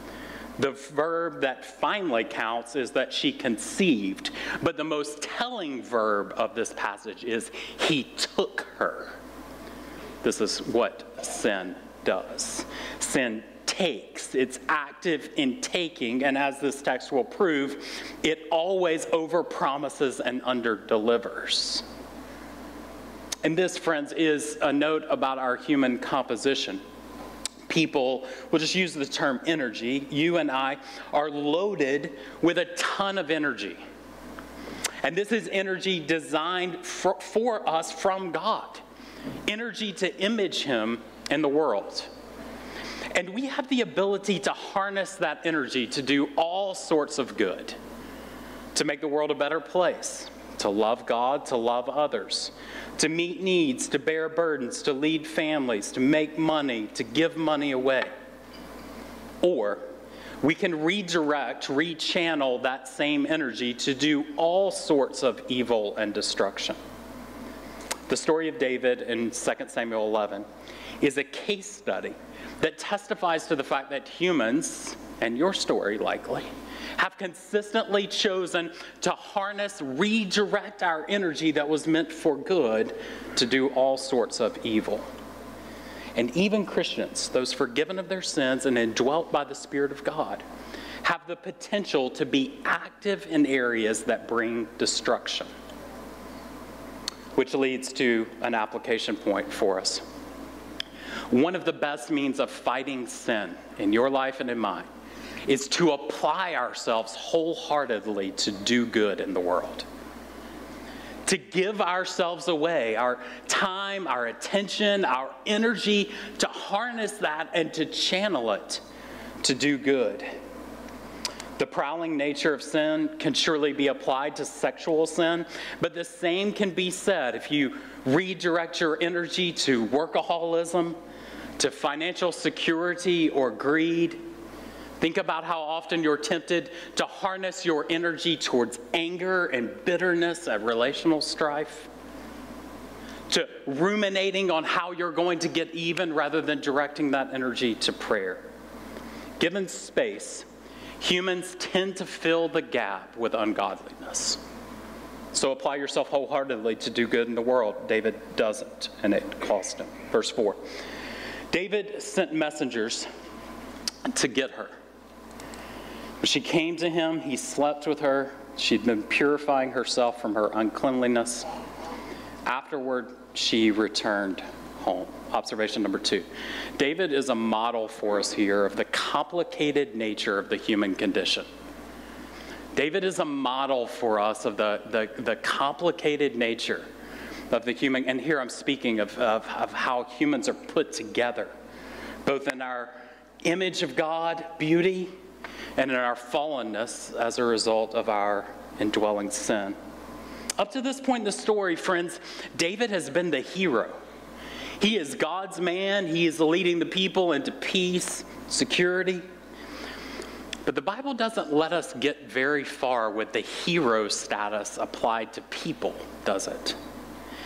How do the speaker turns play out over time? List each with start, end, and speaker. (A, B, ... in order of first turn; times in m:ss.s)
0:00.6-0:09.2 A
0:10.2-0:21.8 A
0:23.4-0:26.8 A
0:27.7-0:33.8 A
0:35.0-0:38.8 A
0:39.5-0:42.1 A
0:43.1-0:47.8 A
0:48.7-0:58.1 A
0:59.4-0:59.8 A
1:00.4-1:06.8 A
1:08.1-1:10.4 A
1:11.0-1:25.0 A
1:26.2-1:30.4 A
1:31.0-1:35.5 A
1:37.4-1:40.0 A
1:41.3-1:44.9 A
1:45.4-1:49.8 A
1:51.2-1:58.8 A
1:59.4-2:00.3 A
2:01.6-2:11.0 A
2:11.6-2:14.2 A
2:15.0-2:21.9 A
2:23.3-2:28.4 A
2:29.4-2:30.4 A
2:31.0-2:34.4 A
2:35.3-2:40.6 A
2:41.5-2:43.1 A
2:44.0-2:44.8 A
2:46.2-2:51.4 A
2:52.4-2:56.2 A
2:56.8-3:01.5 A
3:02.7-3:06.8 A
3:07.5-3:11.5 A
3:12.2-3:15.1 A
3:15.8-3:19.8 A
3:20.6-3:24.0 A
3:24.8-3:29.2 A
3:30.6-3:36.8 A